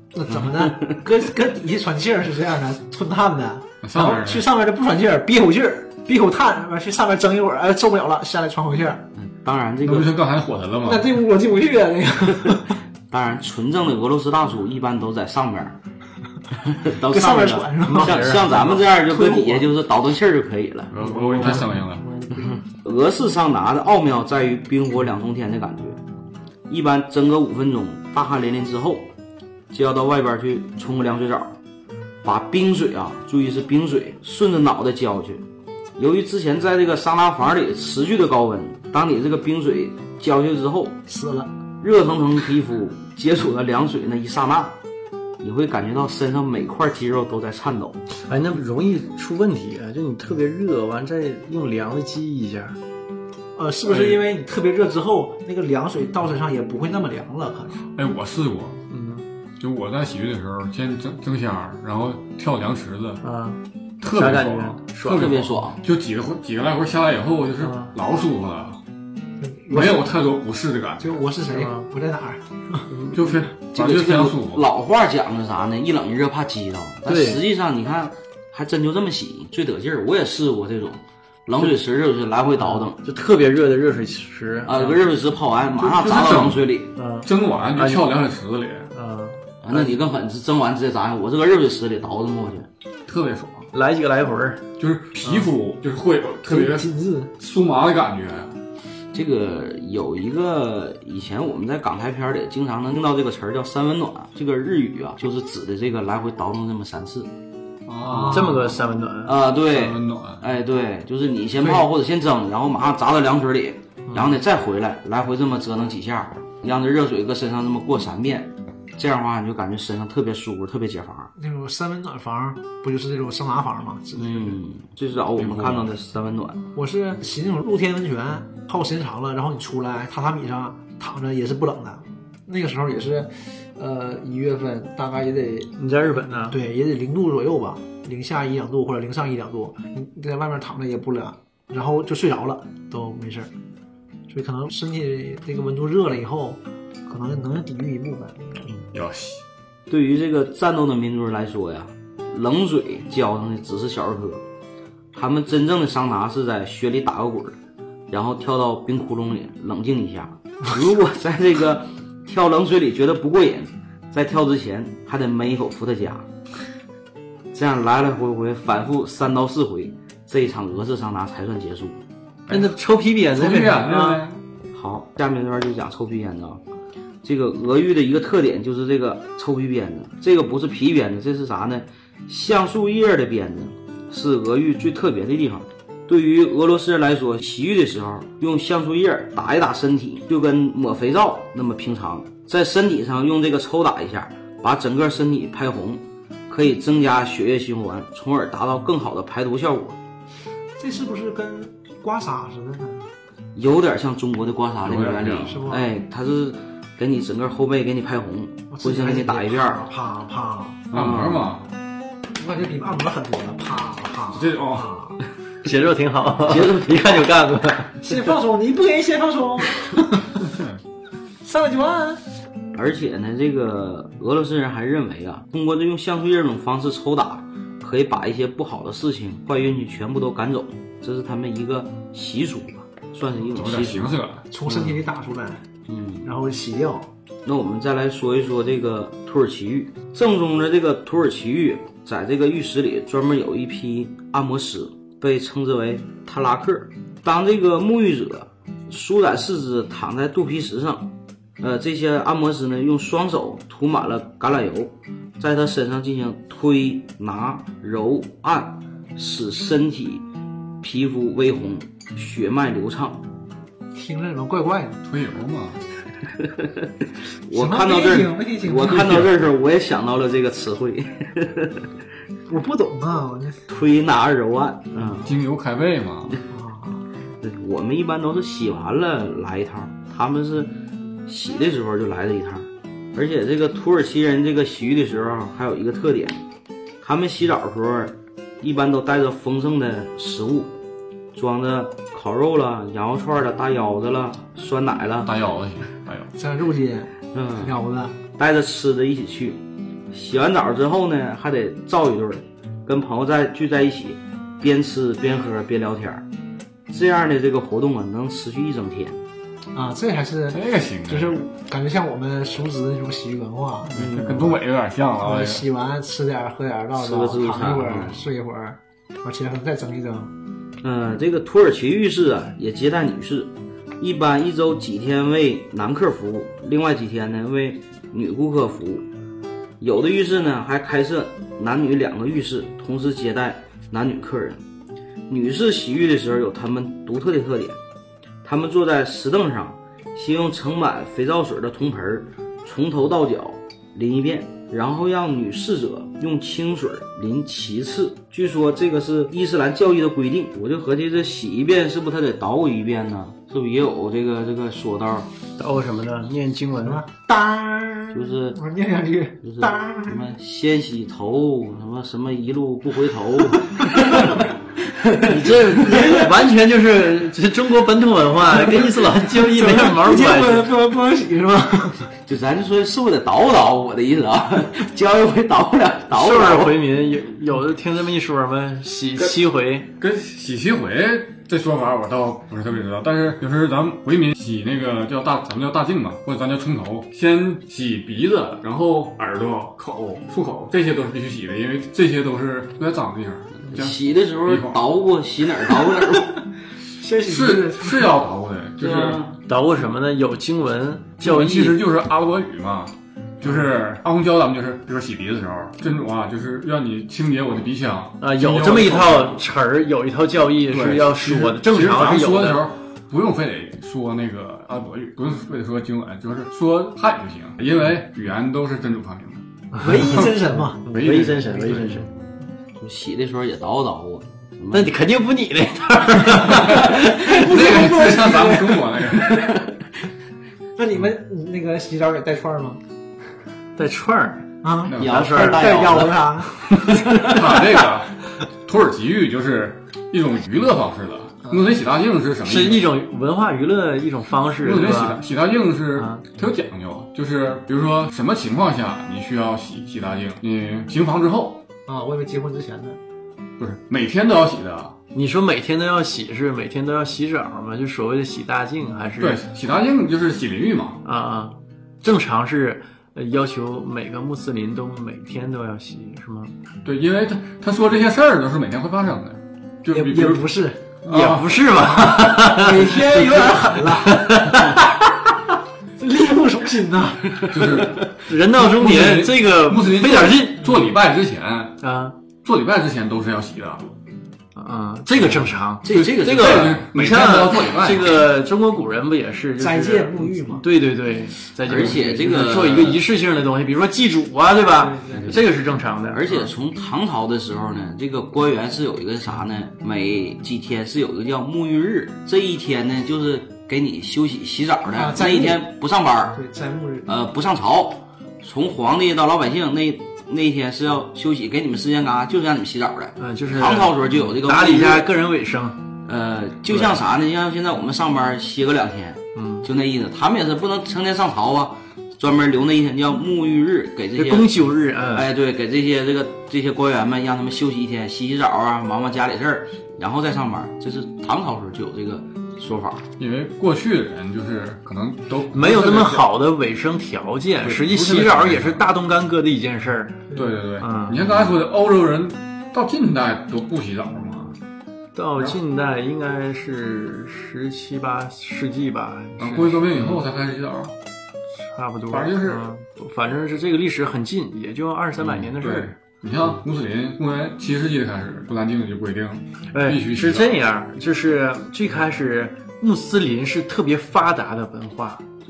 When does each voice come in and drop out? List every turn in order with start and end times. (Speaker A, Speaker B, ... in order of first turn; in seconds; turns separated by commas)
Speaker A: 0.1-9.1, Speaker B: 0.3-1.0, Speaker C: 3.8-4.5, Speaker B: 9.2-10.1, Speaker C: 9.8-11.2, Speaker A: 10.8-12.8, Speaker B: 13.1-15.8, Speaker B: 16.6-20.9, Speaker A: 17.0-19.7, Speaker D: 17.8-18.8, Speaker C: 20.9-22.1, Speaker A: 21.0-22.5, Speaker D: 21.4-21.7, Speaker B: 22.8-26.0, Speaker B: 26.7-29.1, Speaker B: 29.7-31.6, Speaker B: 32.2-35.4, Speaker B: 36.0-41.0, Speaker A: 41.1-41.5, Speaker B: 41.8-44.8, Speaker B: 45.4-48.1, Speaker D: 48.3-52.8, Speaker A: 53.5-57.8, Speaker D: 53.9-54.2, Speaker C: 57.9-58.8, Speaker D: 58.9-59.2, Speaker C: 59.6-63.2, Speaker D: 63.2-65.3, Speaker C: 64.0-68.8, Speaker B: 65.1-65.8, Speaker D: 67.6-67.9, Speaker A: 69.4-70.1, Speaker C: 69.7-71.2, Speaker A: 71.0-72.9, Speaker D: 71.5-71.9, Speaker D: 72.9-73.4, Speaker C: 73.1-74.6, Speaker B: 73.7-83.0, Speaker D: 77.1-77.4, Speaker D: 82.6-85.1, Speaker B: 84.7-86.9, Speaker C: 85.8-86.6, Speaker D: 87.0-88.1, Speaker C: 87.2-88.9, Speaker D: 88.9-89.9, Speaker B: 89.6-92.7, Speaker C: 93.1-93.7, Speaker D: 93.7-94.6, Speaker C: 94.8-98.5, Speaker A: 96.5-97.3, Speaker B: 99.1-107.3, Speaker C: 107.8-108.7, Speaker A: 108.1-108.5, Speaker D: 108.2-109.3, Speaker B: 109.2-121.3, Speaker C: 109.7-110.4, Speaker D: 114.1-114.4, Speaker A: 121.3-124.6, Speaker B: 124.2-126.6, Speaker C: 125.4-125.9, Speaker A: 126.7-135.7, Speaker D: 135.8-136.6, Speaker A: 136.5-143.5, Speaker A: 144.3-148.7, Speaker C: 148.9-149.4, Speaker B: 149.9-154.4, Speaker B: 155.1-157.6, Speaker B: 158.1-166.3, Speaker B: 167.5-172.0, Speaker C: 172.5-172.7, Speaker D: 172.5-174.2, Speaker C: 173.3-174.4, Speaker B: 174.7-176.6, Speaker B: 177.2-200.0, Speaker A: 200.8-203.1, Speaker B: 203.6-209.8, Speaker C: 204.8-205.6, Speaker A: 205.4-205.9, Speaker A: 208.7-210.8, Speaker B: 210.9-211.5, Speaker C: 210.9-211.7, Speaker A: 212.4-215.2, Speaker C: 214.3-214.9, Speaker D: 215.6-218.1, Speaker B: 216.4-217.7, Speaker A: 218.0-220.4, Speaker C: 220.5-220.8, Speaker A: 221.4-222.2, Speaker B: 222.7-234.2, Speaker C: 233.5-234.5, Speaker A: 234.5-235.7, Speaker B: 235.9-236.3, Speaker A: 236.2-237.1, Speaker B: 237.4-260.2, Speaker B: 260.8-263.2, Speaker A: 263.9-265.0, Speaker C: 265.0-265.8, Speaker B: 266.4-266.9, Speaker B: 267.4-271.9, Speaker A: 267.5-269.3, Speaker A: 272.5-273.6, Speaker B: 273.7-275.3, Speaker A: 274.9-275.3, Speaker C: 275.2-276.4, Speaker A: 276.5-277.1, Speaker B: 277.4-280.7, Speaker B: 281.2-286.4, Speaker B: 287.0-290.7, Speaker B: 291.3-295.3, Speaker C: 295.2-296.3, Speaker A: 296.4-298.2, Speaker B: 297.3-297.7, Speaker B: 298.4-306.2, Speaker B: 306.9-309.2, Speaker A: 309.7-314.0, Speaker C: 310.5-311.4, Speaker C: 313.9-315.6, Speaker B: 313.9-314.6, Speaker A: 315.2-320.3, Speaker B: 316.9-318.2, Speaker B: 320.8-329.1, Speaker B: 329.8-334.6, Speaker B: 335.3-337.8, Speaker B: 338.4-355.3, Speaker D: 355.6-357.0, Speaker A: 356.8-360.2, Speaker B: 358.1-358.6, Speaker B: 359.4-366.2, Speaker D: 365.2-370.7, Speaker A: 368.5-372.1, Speaker B: 372.2-376.8, Speaker D: 376.1-379.9, Speaker C: 380.0-394.8, Speaker B: 393.7-396.4, Speaker A: 395.8-396.3, Speaker A: 396.9-398.2, Speaker C: 397.2-399.2, Speaker B: 398.8-399.4, Speaker D: 399.5-401.8, Speaker C: 401.2-409.4, Speaker D: 408.2-412.6, Speaker C: 410.7-422.1, Speaker D: 419.7-422.1, Speaker A: 419.8-420.8, Speaker B: 422.8-424.9, Speaker D: 424.7-427.3, Speaker C: 426.5-429.6, Speaker A: 426.6-429.2, Speaker A: 430.8-432.8, Speaker D: 433.8-436.1, Speaker A: 434.6-436.5, Speaker C: 434.9-435.3, Speaker B: 435.0-437.6, Speaker C: 437.2-442.9, Speaker D: 442.4-445.2, Speaker C: 444.6-451.6, Speaker D: 446.0-446.2, Speaker A: 451.9-453.0, Speaker C: 453.6-454.9, Speaker D: 455.1-459.4, Speaker C: 459.2-461.0, Speaker D: 461.0-466.5, Speaker C: 466.8-470.5, Speaker A: 469.9-470.9, Speaker C: 471.0-471.7, Speaker D: 471.1-474.8, Speaker A: 471.8-474.8, Speaker A: 476.0-477.9, Speaker C: 477.4-481.8, Speaker D: 478.2-480.9, Speaker D: 481.8-482.1, Speaker C: 482.4-483.9, Speaker D: 484.5-496.3, Speaker C: 485.3-488.2, Speaker B: 485.9-486.7, Speaker A: 486.0-486.5, Speaker A: 489.6-490.7, Speaker B: 491.6-493.0, Speaker A: 494.8-495.3, Speaker B: 495.1-495.4, Speaker B: 496.1-506.4, Speaker A: 504.9-505.7, Speaker A: 506.3-507.1, Speaker B: 507.1-515.1, Speaker D: 513.2-515.8, Speaker B: 516.0-524.5, Speaker D: 516.7-517.0, Speaker D: 519.3-519.7, Speaker D: 524.1-525.3, Speaker B: 525.1-533.1, Speaker C: 533.2-536.2, Speaker D: 535.5-541.4, Speaker C: 537.6-538.9, Speaker C: 540.3-544.6, Speaker D: 545.1-550.2, Speaker C: 549.4-550.9, Speaker D: 551.6-556.0, Speaker C: 552.1-552.7, Speaker C: 555.2-560.6, Speaker D: 559.7-565.2